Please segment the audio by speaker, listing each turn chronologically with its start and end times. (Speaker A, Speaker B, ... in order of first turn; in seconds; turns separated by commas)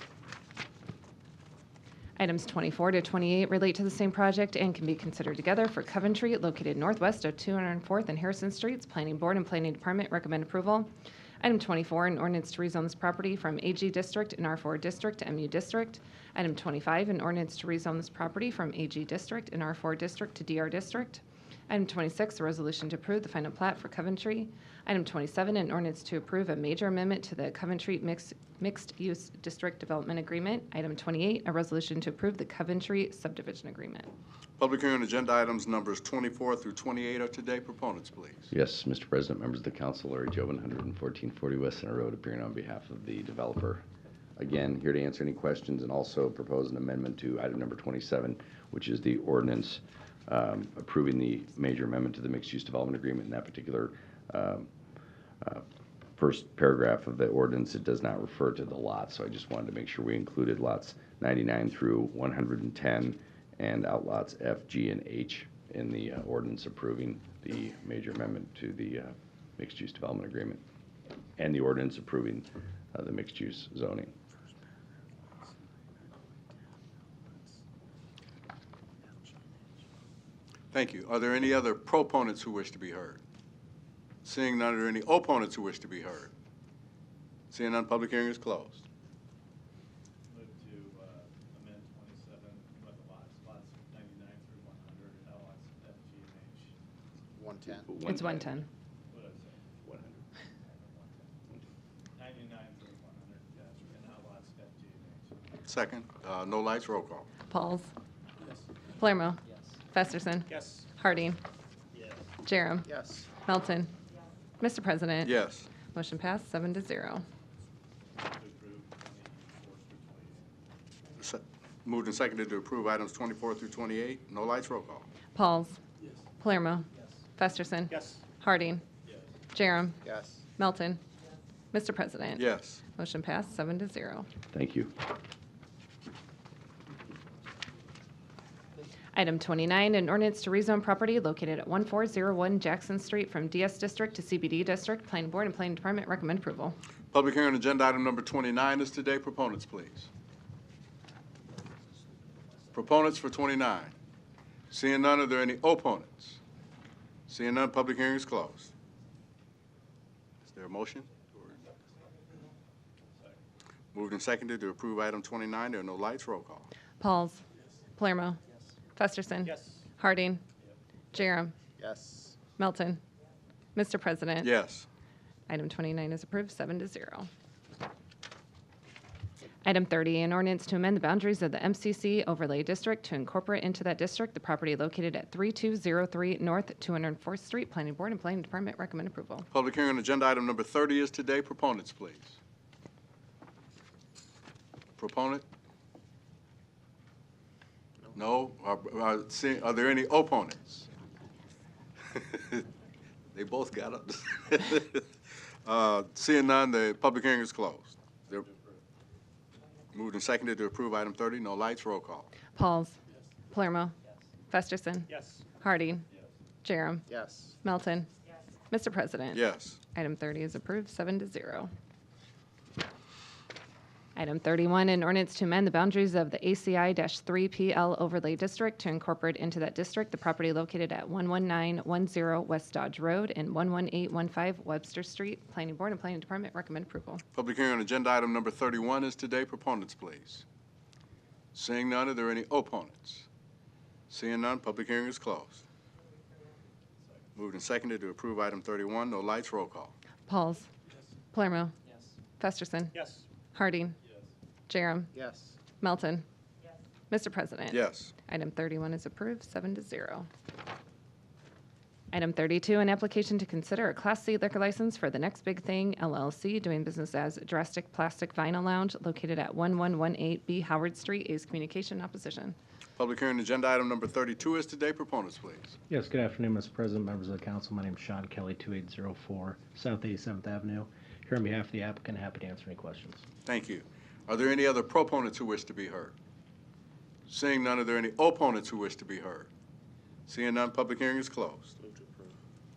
Speaker A: 2.2-10.9, Speaker A: 11.4-34.1, Speaker B: 34.6-38.5, Speaker C: 38.5-43.8, Speaker C: 44.4-54.7, Speaker C: 56.2-70.6, Speaker C: 71.4-74.1, Speaker B: 80.7-83.2, Speaker B: 84.2-86.3, Speaker B: 87.5-88.8, Speaker D: 90.3-96.7, Speaker E: 97.3-97.9, Speaker C: 97.8-98.4, Speaker A: 98.0-98.7, Speaker D: 99.1-99.7, Speaker C: 99.8-100.1, Speaker D: 100.6-101.3, Speaker D: 102.2-105.4, Speaker B: 105.7-107.3, Speaker A: 107.5-107.9, Speaker A: 109.0-109.4, Speaker A: 109.9-111.4, Speaker D: 110.5-110.8, Speaker D: 111.9-112.3, Speaker A: 112.4-113.9, Speaker E: 112.9-113.3, Speaker A: 114.6-115.3, Speaker B: 115.2-115.7, Speaker A: 115.8-117.2, Speaker D: 118.2-120.5, Speaker B: 121.2-125.0, Speaker A: 125.3-125.8, Speaker A: 126.4-128.8, Speaker D: 127.9-128.2, Speaker A: 129.5-130.0, Speaker E: 130.0-130.4, Speaker A: 130.6-131.0, Speaker A: 131.7-134.3, Speaker B: 132.3-132.8, Speaker C: 134.5-134.9, Speaker A: 139.1-146.8, Speaker B: 147.1-150.1, Speaker B: 152.7-153.9, Speaker B: 154.7-156.4, Speaker B: 157.3-158.7, Speaker B: 160.4-161.6, Speaker B: 163.9-166.7, Speaker A: 167.0-167.4, Speaker A: 168.0-168.4, Speaker A: 168.9-170.4, Speaker D: 169.4-169.8, Speaker A: 171.1-171.5, Speaker E: 171.8-172.4, Speaker A: 172.6-173.0, Speaker A: 173.7-174.5, Speaker B: 174.4-174.9, Speaker A: 175.5-177.3, Speaker A: 179.6-189.5, Speaker B: 189.5-192.4, Speaker B: 195.0-195.4, Speaker B: 198.1-200.9, Speaker B: 202.1-202.7, Speaker B: 203.3-205.1, Speaker B: 205.6-208.4, Speaker D: 208.3-208.8, Speaker B: 209.9-212.3, Speaker A: 212.5-212.9, Speaker A: 213.5-213.9, Speaker A: 214.5-215.1, Speaker D: 215.1-215.4, Speaker A: 215.6-216.0, Speaker A: 216.6-217.1, Speaker E: 217.1-217.6, Speaker A: 217.6-218.1, Speaker A: 218.7-219.4, Speaker B: 219.3-219.8, Speaker A: 219.9-221.7, Speaker A: 224.2-237.2, Speaker B: 237.3-240.4, Speaker B: 241.5-243.3, Speaker B: 244.1-245.6, Speaker B: 247.3-249.9, Speaker A: 250.3-250.7, Speaker A: 251.3-251.7, Speaker A: 252.4-252.9, Speaker D: 252.9-253.2, Speaker A: 253.5-253.9, Speaker A: 254.7-255.1, Speaker E: 255.1-255.6, Speaker A: 255.8-256.2, Speaker A: 257.1-260.3, Speaker B: 257.7-258.1, Speaker A: 262.1-272.6, Speaker B: 273.0-275.8, Speaker F: 275.9-283.2, Speaker B: 283.4-286.1, Speaker B: 287.3-289.5, Speaker B: 290.3-291.7, Speaker E: 291.8-292.3